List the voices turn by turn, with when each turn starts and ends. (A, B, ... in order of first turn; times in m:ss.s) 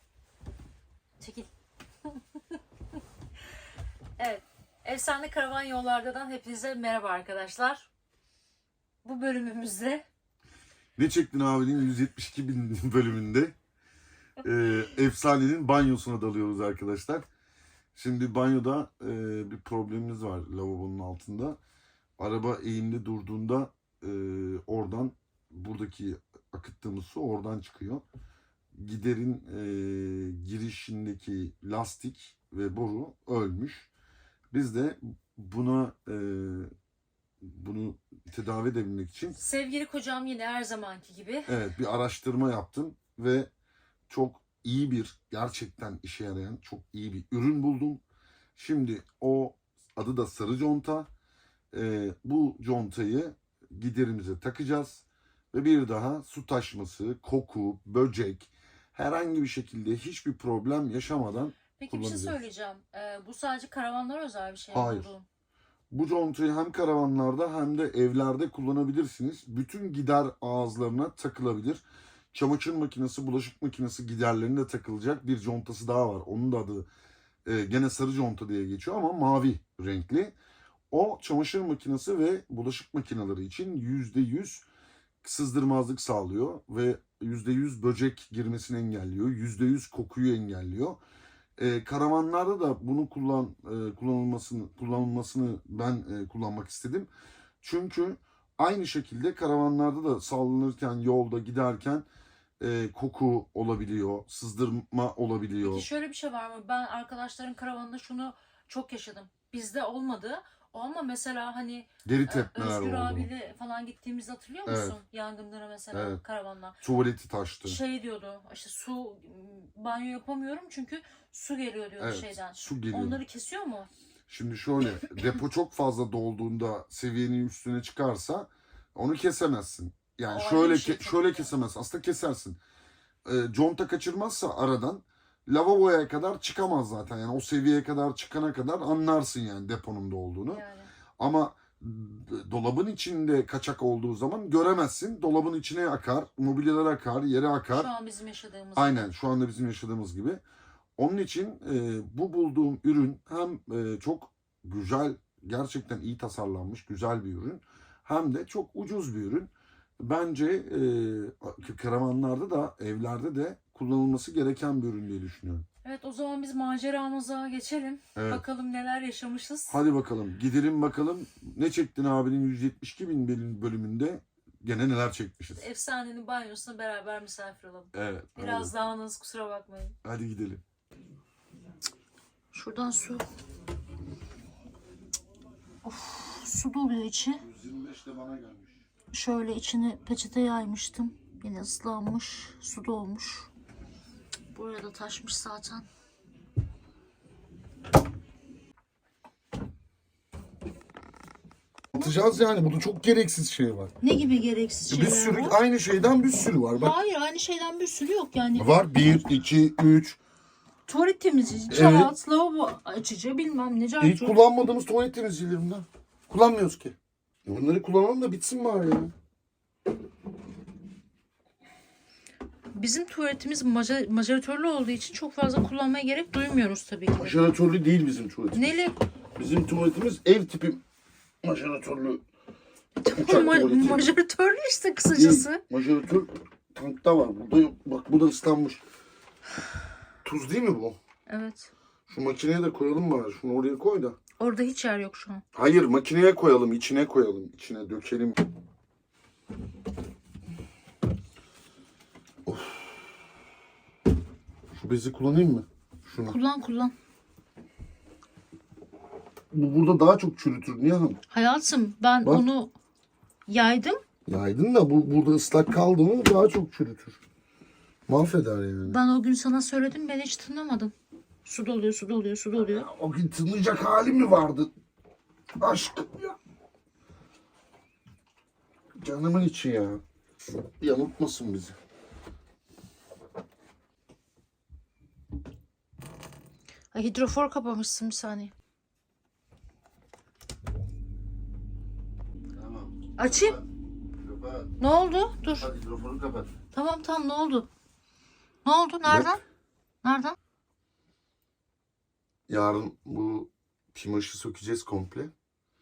0:01.2-0:01.5 A
0:02.1-0:02.6 A
0:04.2-0:07.9 A
0:09.0-0:10.1 A
0:11.0-0:13.6 B
0:14.4-0:17.2 B
0:18.0-0:21.6 B
0:22.2-0:28.0 B
0:28.7-0:33.9 B
0:34.5-0:36.7 B
0:37.4-0:39.4 B
0:39.4-0:41.5 A
0:41.5-0:43.5 B
0:44.1-0:48.0 B
0:48.6-0:51.1 B
0:51.7-1:02.4 B
1:01.8-1:05.3 A
1:04.7-1:05.1 B
1:05.9-1:16.9 B
1:17.4-1:20.4 B
1:20.9-1:24.6 B
1:25.2-1:31.0 B
1:31.6-1:37.1 B
1:37.6-1:42.1 B
1:42.6-1:45.9 B
1:45.6-1:56.8 A
1:52.0-1:53.3 B
1:54.7-1:55.0 B
1:55.9-1:56.2 B
1:56.8-1:57.8 B
1:57.7-2:03.9 A
2:02.0-2:03.2 B
2:04.3-2:12.6 B
2:10.3-2:11.5 A
2:13.2-2:20.6 B
2:20.5-2:20.9 A
2:21.2-2:27.9 B
2:27.7-2:29.0 A
2:28.8-2:30.4 B
2:31.0-2:45.7 B
2:45.8-2:49.8 A
2:48.2-2:48.4 B
2:49.7-2:55.7 B
2:55.6-3:00.0 A
2:57.9-2:58.7 B
3:00.0-3:00.6 B
3:02.5-3:03.2 A
3:05.8-3:07.4 A
3:07.4-3:08.8 B
3:09.1-3:13.5 A
3:14.5-3:15.9 A
3:21.9-3:23.9 B
3:24.0-3:25.6 A
3:24.9-3:27.0 B
3:26.8-3:28.7 A
3:28.6-3:30.2 B
3:30.9-3:34.4 A
3:31.7-3:32.1 B
3:34.0-3:39.1 B
3:42.7-3:47.4 A
3:47.2-3:48.8 B
3:48.6-3:49.0 A
3:49.4-3:50.8 B
3:51.4-3:52.2 B
3:53.0-3:55.6 A
3:53.2-3:54.1 B
3:55.1-3:58.8 B
4:00.2-4:01.0 B
4:01.3-4:01.7 A
4:02.1-4:04.2 B
4:04.4-4:05.4 A
4:05.5-4:08.4 B
4:12.4-4:13.0 B
4:14.7-4:16.4 B
4:16.3-4:16.9 A
4:19.5-4:21.2 B
4:21.3-4:22.7 A
4:23.5-4:24.0 A
4:24.3-4:27.2 B
4:28.1-4:29.0 B
4:28.8-4:30.9 A
4:31.4-4:32.9 A
4:32.6-4:34.7 B
4:35.6-4:36.4 B
4:39.0-4:41.8 B
4:46.9-4:48.5 A
4:52.6-4:54.8 B
4:53.2-4:53.6 A
4:54.8-4:55.7 A
4:55.6-4:56.5 B
4:56.7-4:57.7 A
4:58.6-4:59.4 A
4:59.1-4:59.4 B
5:00.0-5:00.4 A
5:02.5-5:05.3 B